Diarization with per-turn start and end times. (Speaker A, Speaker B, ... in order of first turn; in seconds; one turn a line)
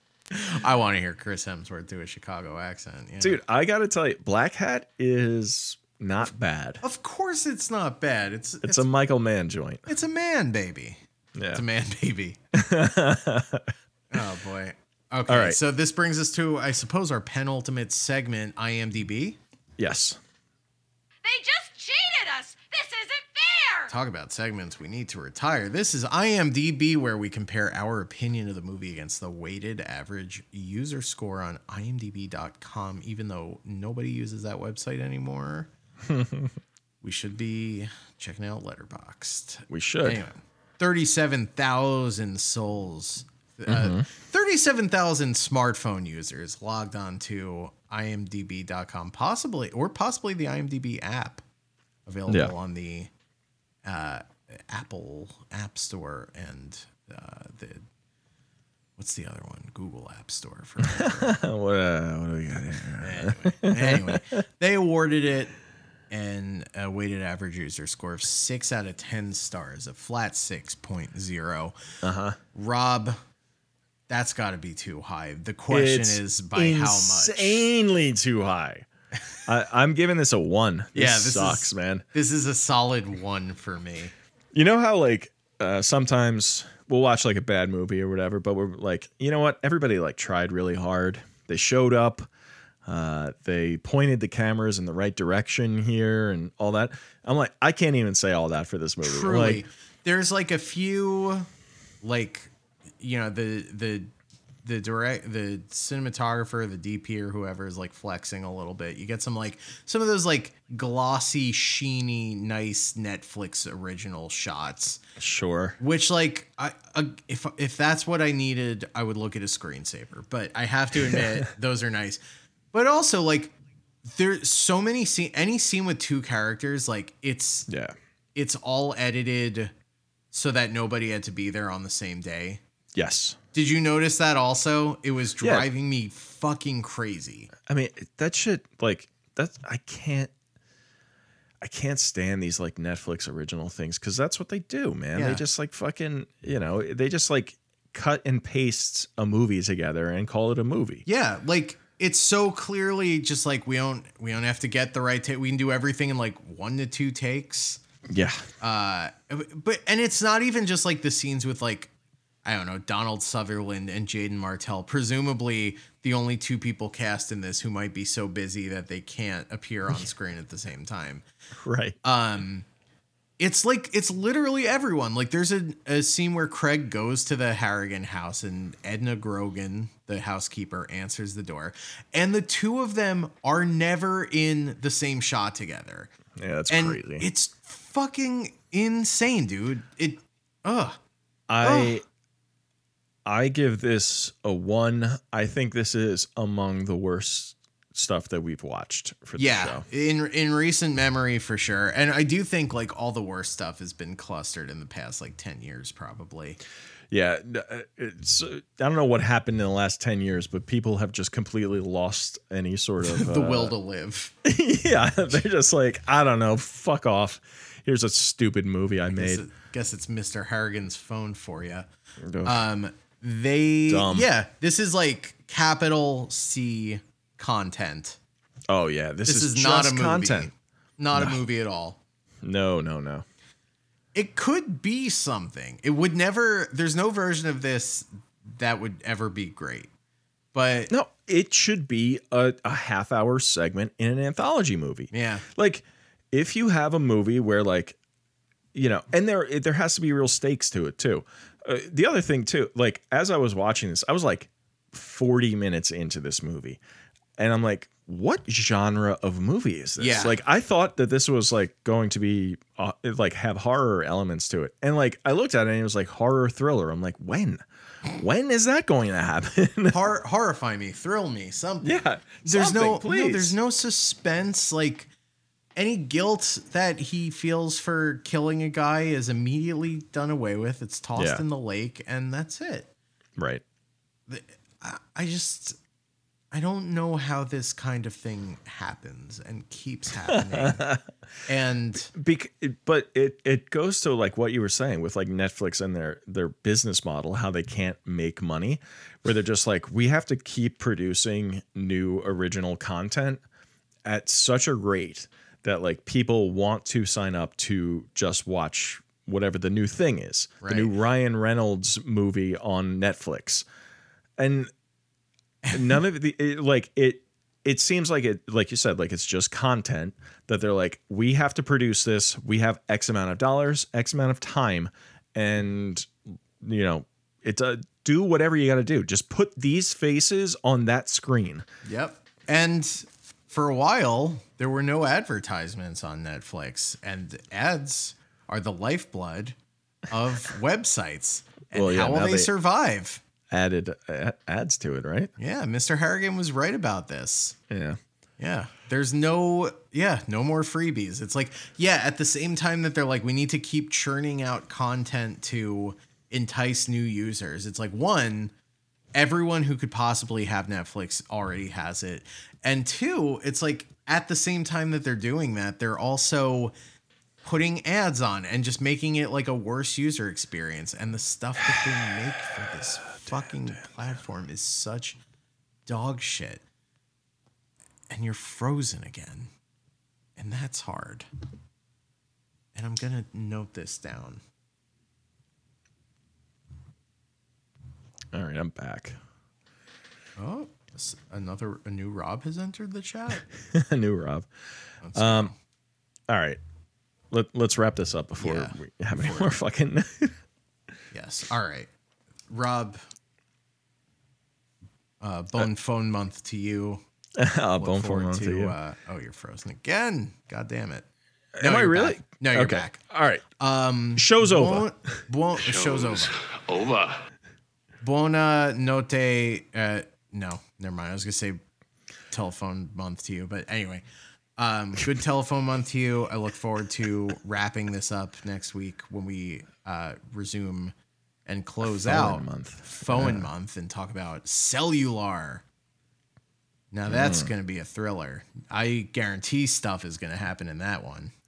Speaker A: 0.3-3.4
Speaker B: 3.2-6.8
Speaker A: 6.8-8.9
Speaker B: 8.6-9.8
Speaker A: 9.8-11.0
Speaker B: 11.3-11.6
Speaker A: 11.5-12.4
Speaker B: 12.5-13.7
Speaker A: 14.1-19.4
Speaker B: 15.3-15.6
Speaker B: 19.8-20.2
Speaker C: 21.2-23.9
Speaker A: 23.9-35.7
Speaker B: 36.1-36.5
Speaker A: 37.0-51.4
Speaker B: 39.7-40.2
Speaker B: 43.7-44.1
Speaker A: 52.0-53.1
Speaker B: 52.3-52.5
Speaker A: 53.8-57.9
Speaker A: 59.0-61.4
Speaker B: 60.8-64.4
Speaker A: 63.0-65.5
Speaker A: 66.1-71.8
Speaker B: 72.0-72.4
Speaker A: 72.5-73.2
Speaker A: 74.1-77.6
Speaker B: 75.7-78.8
Speaker B: 79.4-82.0
Speaker A: 80.9-84.1
Speaker B: 84.5-92.3
Speaker B: 92.9-99.6
Speaker A: 99.0-101.5
Speaker A: 102.0-104.1
Speaker A: 104.6-115.0
Speaker B: 115.2-115.8
Speaker A: 115.8-122.2
Speaker A: 122.7-127.7
Speaker B: 127.7-127.9
Speaker A: 128.3-129.7
Speaker A: 130.3-132.6
Speaker B: 132.9-133.4
Speaker A: 133.5-137.5
Speaker B: 135.4-135.7
Speaker B: 137.7-140.3
Speaker B: 141.6-151.0
Speaker A: 145.1-145.4
Speaker A: 151.1-157.8
Speaker B: 158.1-158.5
Speaker A: 158.6-161.9
Speaker A: 162.4-171.2
Speaker B: 171.6-171.9
Speaker A: 172.0-172.7
Speaker A: 173.4-186.1
Speaker B: 186.4-187.2
Speaker A: 186.7-191.0
Speaker B: 191.5-192.0
Speaker A: 191.6-192.0
Speaker B: 193.2-199.8
Speaker A: 199.3-206.6
Speaker B: 207.1-213.7
Speaker A: 213.0-214.3
Speaker B: 214.4-219.4
Speaker A: 219.1-221.9
Speaker B: 222.2-222.6
Speaker A: 222.4-228.2
Speaker B: 223.9-224.3
Speaker B: 228.7-230.5
Speaker A: 229.2-232.0
Speaker B: 232.4-233.2
Speaker A: 234.1-239.9
Speaker A: 240.5-240.9
Speaker B: 240.9-248.0
Speaker A: 245.1-245.4
Speaker B: 248.7-256.8
Speaker B: 257.4-270.0
Speaker A: 260.0-260.4
Speaker A: 269.9-275.1
Speaker B: 271.8-273.5
Speaker A: 275.8-282.9
Speaker B: 281.1-281.4
Speaker B: 283.4-283.6
Speaker A: 284.3-285.8
Speaker A: 286.5-290.9
Speaker B: 290.3-291.0
Speaker A: 291.5-292.1
Speaker B: 292.1-303.4
Speaker B: 304.1-313.6
Speaker A: 310.6-310.9
Speaker B: 314.4-314.7
Speaker A: 315.6-316.0
Speaker B: 315.7-331.6
Speaker A: 331.8-339.6
Speaker A: 340.1-343.2
Speaker B: 341.7-342.5
Speaker B: 343.5-345.3
Speaker A: 345.4-347.6
Speaker B: 347.7-348.0
Speaker A: 348.4-358.5
Speaker A: 359.1-366.7
Speaker A: 367.4-375.2
Speaker A: 375.9-376.6
Speaker A: 378.1-379.5
Speaker A: 380.4-381.3
Speaker A: 382.7-384.4
Speaker B: 388.3-389.2
Speaker A: 390.4-393.4
Speaker B: 393.6-394.5
Speaker A: 395.0-395.6
Speaker B: 395.1-395.5
Speaker B: 396.3-396.6
Speaker B: 397.3-400.4
Speaker A: 398.4-399.5
Speaker A: 401.1-401.9
Speaker A: 402.5-403.0
Speaker A: 405.2-407.0
Speaker B: 407.4-408.8
Speaker A: 407.8-411.1
Speaker B: 411.6-413.4
Speaker A: 411.6-413.0
Speaker A: 413.6-416.6
Speaker B: 414.1-414.9
Speaker A: 418.0-421.6
Speaker A: 422.3-424.0
Speaker A: 424.6-430.9
Speaker A: 431.4-435.6
Speaker B: 431.9-433.5
Speaker A: 436.9-441.3
Speaker B: 437.1-437.5